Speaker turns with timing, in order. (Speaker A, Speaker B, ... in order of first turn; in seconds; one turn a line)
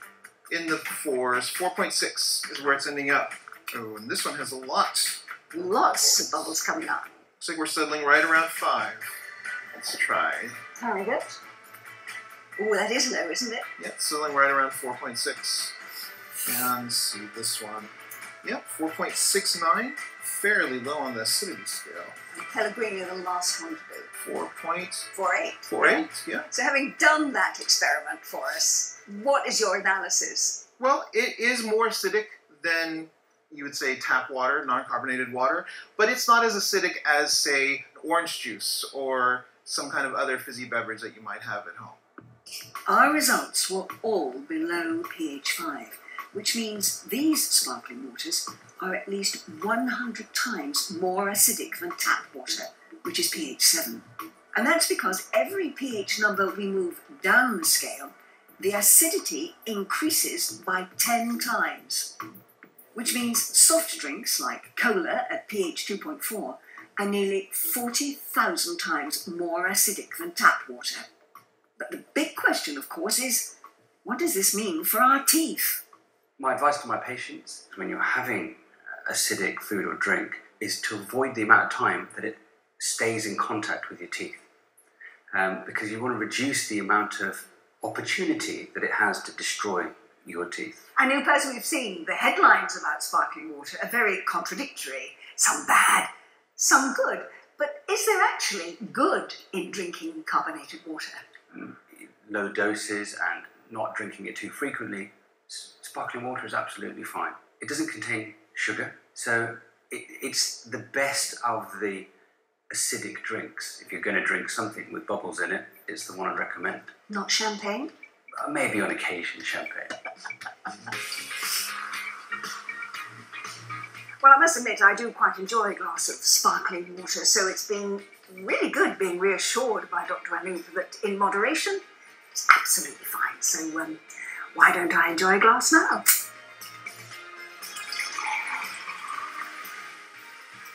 Speaker A: 0.5-6.3
Speaker B: 5.5-7.1
Speaker A: 7.4-9.2
Speaker A: 9.7-10.6
Speaker B: 10.8-11.4
Speaker B: 12.6-13.7
Speaker A: 13.8-15.8
Speaker A: 16.4-17.9
Speaker A: 18.4-22.1
Speaker B: 22.3-24.1
Speaker A: 24.2-25.1
Speaker B: 25.1-30.6
Speaker A: 25.6-26.5
Speaker A: 30.8-42.0
Speaker B: 42.9-62.1
Speaker B: 62.9-71.1
Speaker B: 71.8-75.8
Speaker C: 76.4-84.4
Speaker C: 85.3-90.9
Speaker B: 91.0-101.2
Speaker C: 101.5-112.1
Speaker C: 112.7-116.9
Speaker B: 117.1-117.9
Speaker C: 118.4-120.0
Speaker B: 124.2-131.8
Speaker B: 132.3-134.0
Speaker B: 134.5-136.0